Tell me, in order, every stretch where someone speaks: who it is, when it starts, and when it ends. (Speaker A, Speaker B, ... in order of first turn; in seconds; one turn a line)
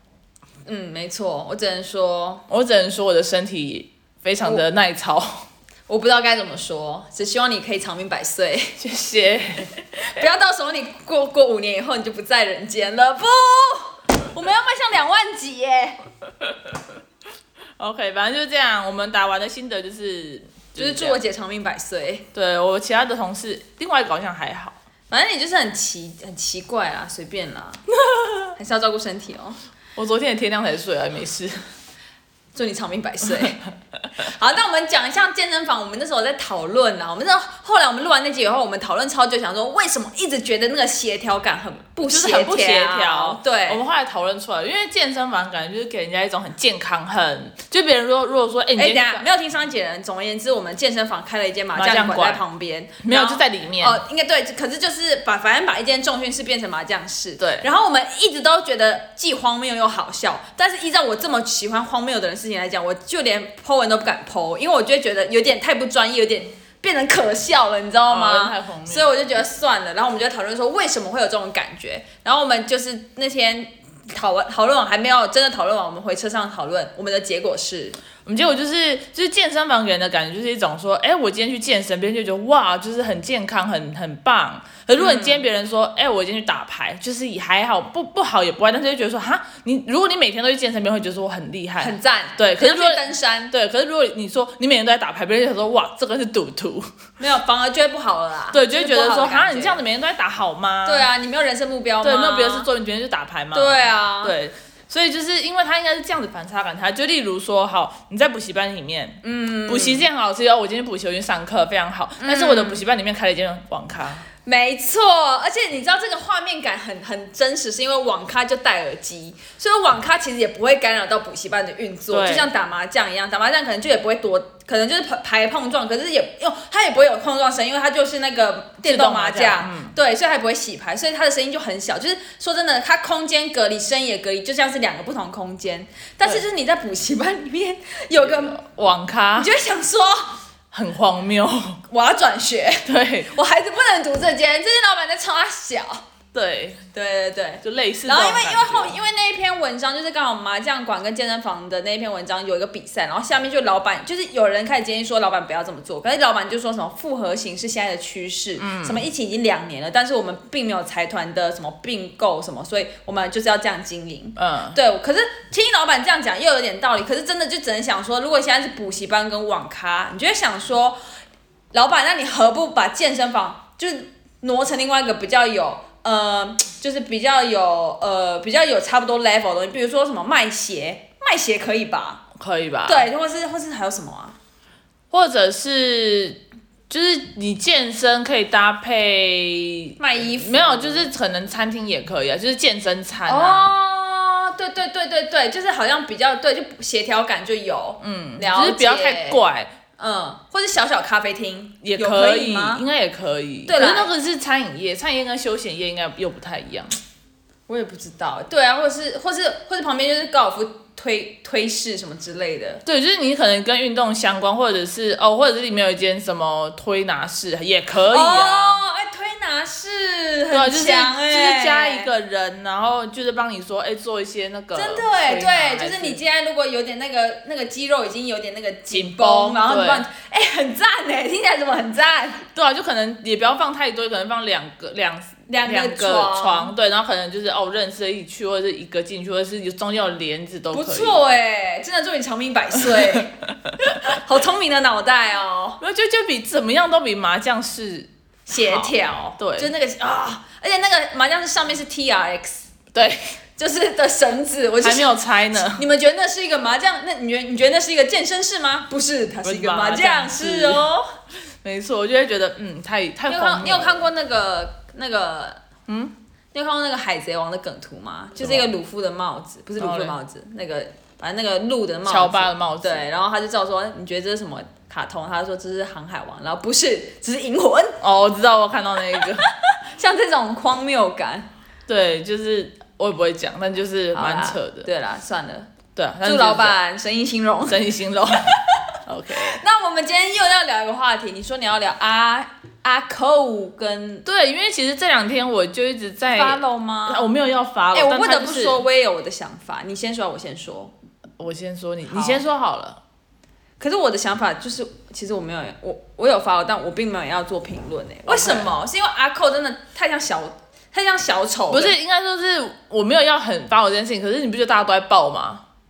Speaker A: 0.7-2.4
Speaker B: 2.5-5.5
Speaker A: 5.9-8.8
Speaker B: 8.8-9.7
Speaker A: 10.0-16.0
Speaker B: 17.8-21.2
Speaker A: 20.7-22.2
Speaker B: 22.3-24.7
Speaker A: 25.1-27.9
Speaker B: 28.0-28.5
Speaker A: 28.6-29.6
Speaker B: 29.9-31.6
Speaker A: 32.5-33.7
Speaker A: 34.2-43.8
Speaker B: 42.0-49.2
Speaker A: 48.8-78.0
Speaker B: 51.7-52.4
Speaker B: 53.0-54.0
Speaker B: 57.4-57.6
Speaker B: 68.1-69.1
Speaker B: 78.2-96.9
Speaker A: 85.0-85.5
Speaker A: 91.8-93.5
Speaker A: 97.2-99.8
Speaker B: 98.5-101.1
Speaker A: 100.8-102.7
Speaker B: 102.0-114.3
Speaker A: 103.5-104.3
Speaker A: 109.2-110.0
Speaker A: 112.2-112.8
Speaker A: 114.4-138.6
Speaker B: 122.1-122.5
Speaker B: 128.8-129.9
Speaker B: 138.2-139.5
Speaker A: 139.3-140.4
Speaker B: 140.7-141.8
Speaker A: 141.9-146.0
Speaker B: 142.8-143.3
Speaker B: 146.3-146.8
Speaker A: 146.9-171.0
Speaker B: 147.6-149.0
Speaker B: 158.6-159.0
Speaker B: 164.4-164.8
Speaker A: 171.7-182.2
Speaker B: 182.4-183.1
Speaker A: 182.8-184.3
Speaker B: 185.1-193.7
Speaker A: 190.0-191.1
Speaker A: 193.2-199.4
Speaker B: 198.0-199.7
Speaker A: 200.0-202.8
Speaker B: 201.8-207.0
Speaker A: 203.7-204.1
Speaker A: 207.7-212.8
Speaker B: 212.8-218.8
Speaker A: 218.1-222.1
Speaker B: 220.5-226.2
Speaker A: 224.7-232.4
Speaker B: 228.9-230.0
Speaker B: 232.5-241.2
Speaker A: 235.5-236.7
Speaker A: 240.7-243.3
Speaker A: 243.9-245.8
Speaker B: 245.8-249.7
Speaker A: 248.5-252.7
Speaker B: 252.9-253.3
Speaker A: 253.6-261.1
Speaker B: 254.8-255.8
Speaker B: 259.4-260.8
Speaker B: 261.6-264.1
Speaker A: 263.3-265.6
Speaker B: 265.9-266.1
Speaker A: 266.5-278.0
Speaker B: 268.4-268.7
Speaker B: 269.8-270.1
Speaker B: 272.1-273.0
Speaker B: 278.0-279.4
Speaker A: 279.2-281.5
Speaker B: 281.9-284.9
Speaker A: 284.1-285.7
Speaker B: 285.9-286.8
Speaker A: 286.2-287.8
Speaker B: 287.7-288.5
Speaker B: 289.1-289.6
Speaker A: 289.5-294.2
Speaker B: 294.2-298.8
Speaker A: 296.3-297.3
Speaker A: 297.9-300.9
Speaker B: 301.4-303.0
Speaker A: 302.1-302.4
Speaker A: 303.8-311.9
Speaker B: 308.2-308.7
Speaker B: 311.7-315.6